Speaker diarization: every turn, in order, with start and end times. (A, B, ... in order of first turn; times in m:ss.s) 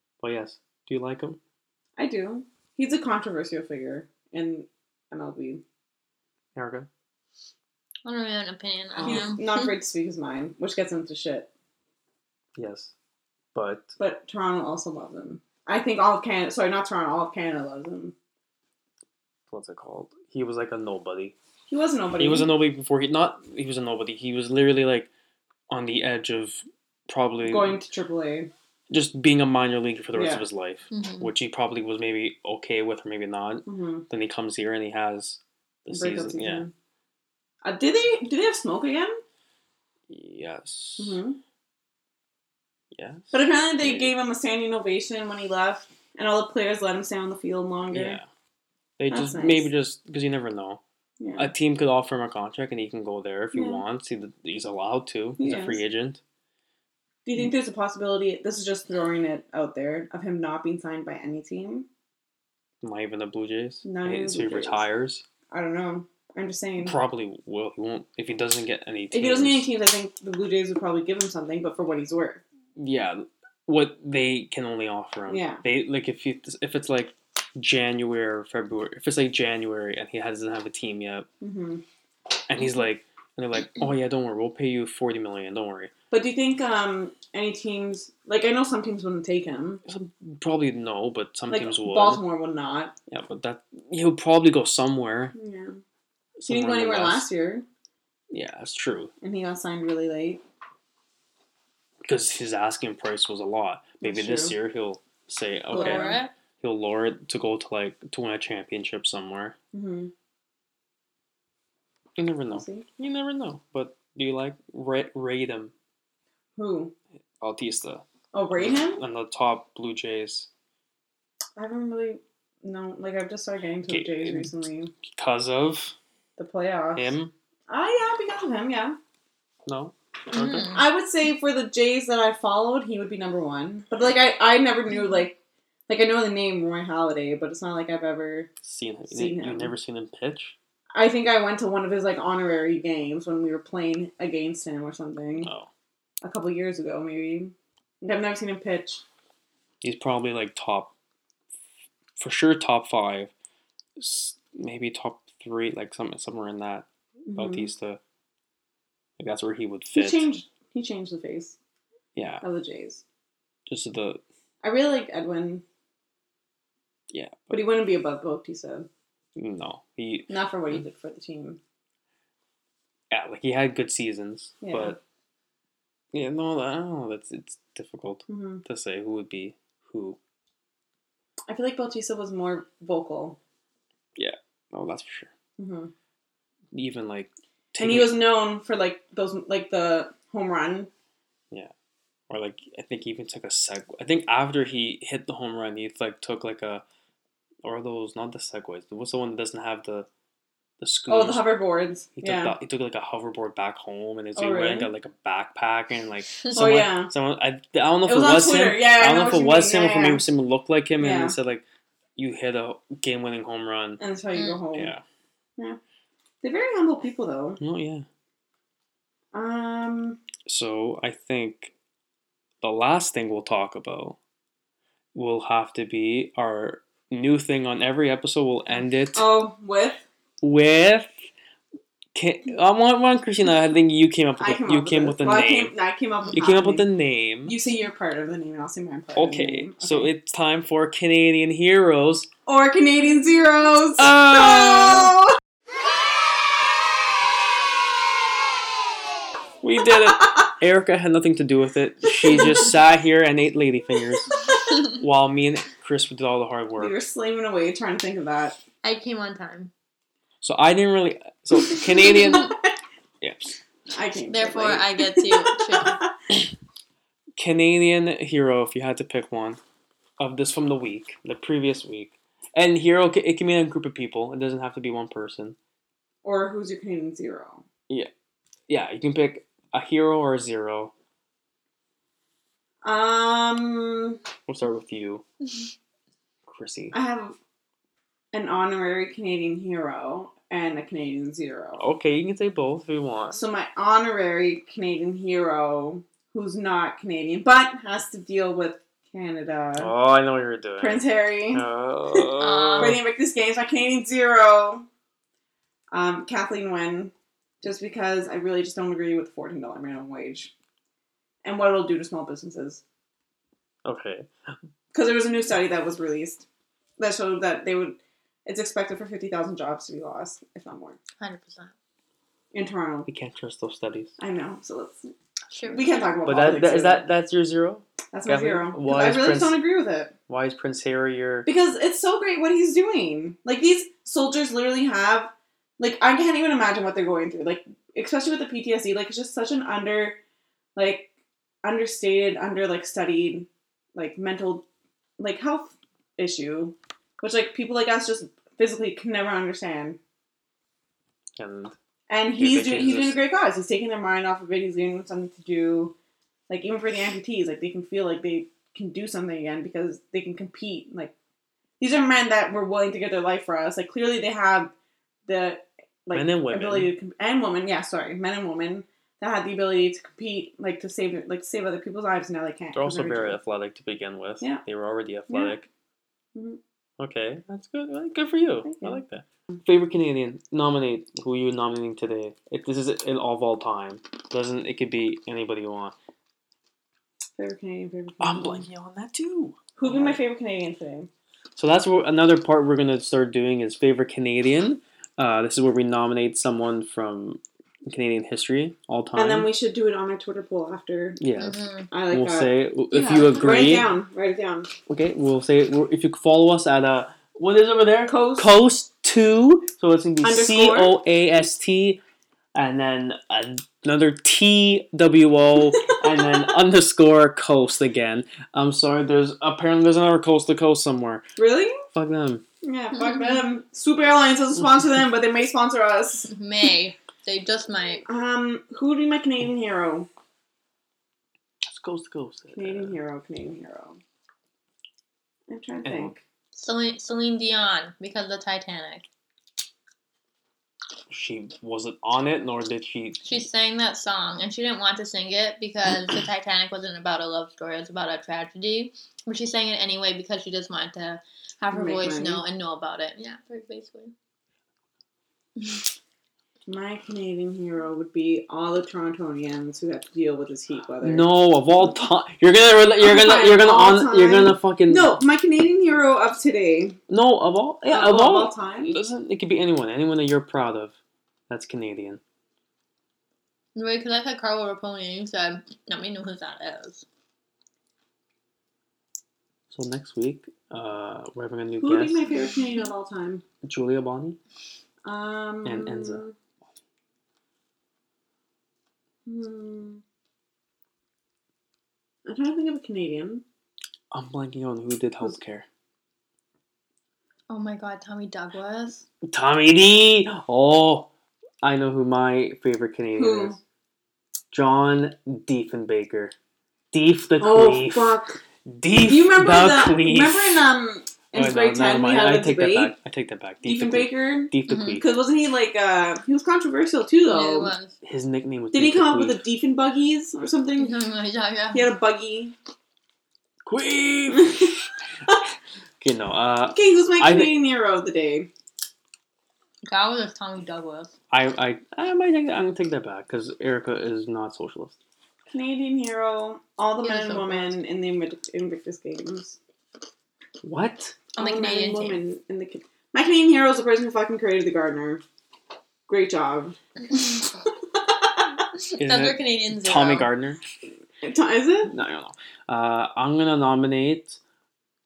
0:00.2-0:01.4 A
0:02.0-0:05.6 B
0:06.6-0:06.9 A
0:08.0-0:09.7 C
0:09.0-0:11.5 B
0:12.6-0:12.9 A
0:13.5-0:13.9 A
0:14.0-0:18.1 B
0:19.5-0:21.3 A
0:21.7-0:22.5 B
0:22.2-0:25.1 A
0:25.7-0:27.8 A
0:27.4-0:28.5 B
0:28.9-0:36.6 A
0:30.1-0:30.4 B
0:30.9-0:31.3 C
0:33.6-0:34.0 B
0:35.9-0:36.7 B
0:37.6-0:39.2 B
0:40.1-0:41.2 A
0:41.0-0:41.4 B
0:42.9-0:44.1 A
0:43.3-0:48.2 B
0:47.9-0:48.2 A
0:49.0-0:50.8 A
0:49.1-0:49.7 B
0:51.2-0:51.5 B
0:51.4-0:56.2 A
0:53.5-0:53.8 B
0:55.4-0:55.8 B
0:57.2-1:01.9 B
1:02.8-1:05.2 A
1:03.8-1:04.8 B
1:05.5-1:07.0 B
1:06.8-1:09.7 A
1:09.1-1:12.4 B
1:12.8-1:21.3 A
1:15.3-1:15.6 B
1:21.4-1:21.8 B
1:22.5-1:25.9 A
1:26.1-1:29.8 B
1:29.8-1:32.2 A
1:31.5-1:32.9 B
1:33.1-1:35.3 A
1:35.3-1:35.8 B
1:36.4-1:37.3 A
1:36.5-1:37.6 B
1:38.3-1:39.1 A
1:39.2-1:40.4 B
1:42.0-1:49.6 A
1:44.0-1:44.6 B
1:45.7-1:46.2 B
1:45.7-1:46.3 C
1:49.7-1:50.1 B
1:52.2-1:55.7 A
1:52.5-1:52.8 B
1:56.6-1:56.9 B
1:57.4-1:58.0 A
1:58.3-1:59.0 B
1:58.6-2:00.5 A
2:01.6-2:04.9 B
2:03.9-2:04.5 A
2:05.1-2:05.9 A
2:06.4-2:07.1 B
2:07.0-2:07.3 A
2:07.7-2:09.0 B
2:09.6-2:10.8 A
2:10.3-2:10.8 C
2:10.7-2:15.4 B
2:15.9-2:18.5 B
2:18.6-2:20.5 A
2:19.1-2:19.7 B
2:20.9-2:25.5 B
2:25.4-2:25.7 A
2:26.2-2:29.0 B
2:29.8-2:30.9 A
2:32.2-2:33.3 A
2:34.0-2:38.0 A
2:37.3-2:37.7 B
2:39.2-2:40.3 A
2:39.9-2:41.6 B
2:42.1-2:42.4 A
2:42.4-2:43.0 B
2:43.7-2:44.2 A
2:44.6-2:45.6 B
2:47.1-2:47.6 A
2:47.5-2:48.9 B
2:49.4-2:50.8 A
2:50.3-2:51.6 B
2:53.1-2:55.0 A
2:54.6-2:55.0 B
2:56.1-3:00.2 A
2:58.3-2:58.6 B
3:01.5-3:03.4 B
3:04.2-3:05.3 A
3:05.6-3:05.9 B
3:06.7-3:08.2 A
3:07.8-3:10.9 B
3:12.3-3:16.8 A
3:17.6-3:20.1 A
3:20.8-3:21.5 A
3:21.1-3:22.5 B
3:22.2-3:31.6 A
3:24.4-3:24.9 B
3:26.5-3:27.1 B
3:28.0-3:30.2 B
3:31.0-3:31.3 B
3:32.2-3:34.0 A
3:34.0-3:34.9 B
3:34.4-3:34.6 C
3:34.7-3:35.0 A
3:36.4-3:37.6 B
3:37.6-3:38.0 A
3:39.3-3:40.2 B
3:40.4-3:41.7 A
3:42.6-3:44.2 A
3:45.1-3:49.3 A
3:49.1-3:50.0 B
3:50.4-3:51.1 A
3:52.1-3:55.7 A
3:54.4-3:56.9 B
3:56.3-3:57.6 A
3:57.4-4:00.1 B
3:59.2-4:02.3 A
4:02.4-4:05.2 B
4:04.0-4:05.2 A
4:09.6-4:17.0 A
4:16.8-4:18.6 B
4:18.8-4:19.7 C
4:20.4-4:22.6 A
4:21.7-4:22.6 B
4:23.2-4:23.5 A
4:23.9-4:26.1 B
4:24.3-4:26.0 C
4:27.4-4:29.6 A
4:30.2-4:35.6 A
4:36.2-4:37.6 B
4:38.7-4:40.9 A
4:42.8-4:44.2 B
4:44.5-4:45.2 A
4:46.5-4:47.0 A
4:46.9-4:47.4 B
4:48.3-4:51.8 B
4:51.8-4:53.4 A
4:53.3-4:59.9 B
4:59.8-5:03.0 A
5:00.8-5:04.9 B
5:02.4-5:03.0 C
5:05.9-5:10.5 B
5:11.4-5:12.8 B
5:13.8-5:14.3 A
5:14.9-5:16.4 B
5:17.0-5:21.0 B
5:21.2-5:21.7 C
5:22.5-5:23.1 B
5:23.1-5:24.1 A
5:24.2-5:25.1 B
5:25.5-5:26.0 C
5:25.7-5:27.0 B
5:26.2-5:29.6 A
5:28.1-5:30.1 B
5:30.3-5:31.5 A
5:31.4-5:40.2 B
5:40.8-5:41.1 B
5:41.6-5:44.6 B
5:45.2-5:50.0 B
5:51.4-5:51.7 A
5:52.1-5:55.9 B
5:52.4-5:53.2 A
5:56.5-6:01.1 B
6:01.8-6:04.7 B
6:05.2-6:13.4 B
6:06.1-6:06.9 A
6:12.7-6:15.7 A
6:15.3-6:15.6 B
6:16.3-6:16.6 B
6:17.0-6:25.9 A
6:18.6-6:19.0 B
6:27.4-6:28.6 B
6:28.2-6:30.2 A
6:29.8-6:31.1 B
6:31.6-6:39.5 A
6:39.1-6:41.2 B
6:41.2-6:43.9 A
6:41.4-6:41.9 C
6:41.9-6:44.7 B
6:44.9-6:52.0 A
6:48.0-6:48.5 B
6:50.2-6:51.0 B
6:52.5-7:01.2 A
7:01.4-7:01.8 B
7:01.9-7:02.4 A
7:02.6-7:06.3 B
7:03.0-7:03.4 C
7:06.3-7:08.0 C
7:08.0-7:10.1 B
7:11.6-7:13.0 A
7:12.5-7:14.0 B
7:15.5-7:16.2 B
7:15.8-7:16.1 A
7:16.5-7:19.1 C
7:21.1-7:23.3 A
7:23.2-7:34.1 C
7:31.7-7:32.4 B
7:36.7-7:41.3 B
7:41.0-7:45.2 A
7:43.0-7:47.0 B
7:47.1-7:51.0 A
7:47.9-7:48.9 B
7:51.5-7:52.2 A
7:53.8-7:57.0 C
7:59.7-8:02.2 A
8:01.8-8:03.4 B
8:03.6-8:04.4 A
8:05.0-8:06.3 B
8:05.6-8:06.2 A
8:09.2-8:10.0 B
8:12.2-8:13.4 B
8:14.1-8:15.6 A
8:17.5-8:19.0 C
8:19.2-8:21.1 A
8:21.6-8:23.6 A
8:23.1-8:23.6 B
8:24.5-8:26.3 A
8:26.9-8:30.6 A
8:27.4-8:28.4 B
8:29.0-8:32.9 B
8:31.3-8:35.0 A
8:33.6-8:37.7 B
8:34.7-8:35.0 C
8:37.2-8:37.9 C
8:38.0-8:39.4 A
8:38.7-8:40.9 B
8:40.8-8:41.9 C
8:41.7-8:42.5 B
8:43.6-8:44.8 A
8:44.3-8:44.7 B
8:46.0-8:47.6 A
8:46.7-8:48.5 B
8:49.8-8:51.1 C
8:51.3-8:55.0 A
8:55.5-8:59.6 B
8:57.0-8:57.8 C
9:00.6-9:01.2 A
9:01.3-9:02.2 C
9:01.4-9:05.2 B
9:06.1-9:06.8 B
9:08.4-9:08.6 B
9:08.9-9:10.3 C
9:09.0-9:10.6 A
9:11.2-9:11.9 B
9:11.9-9:14.4 A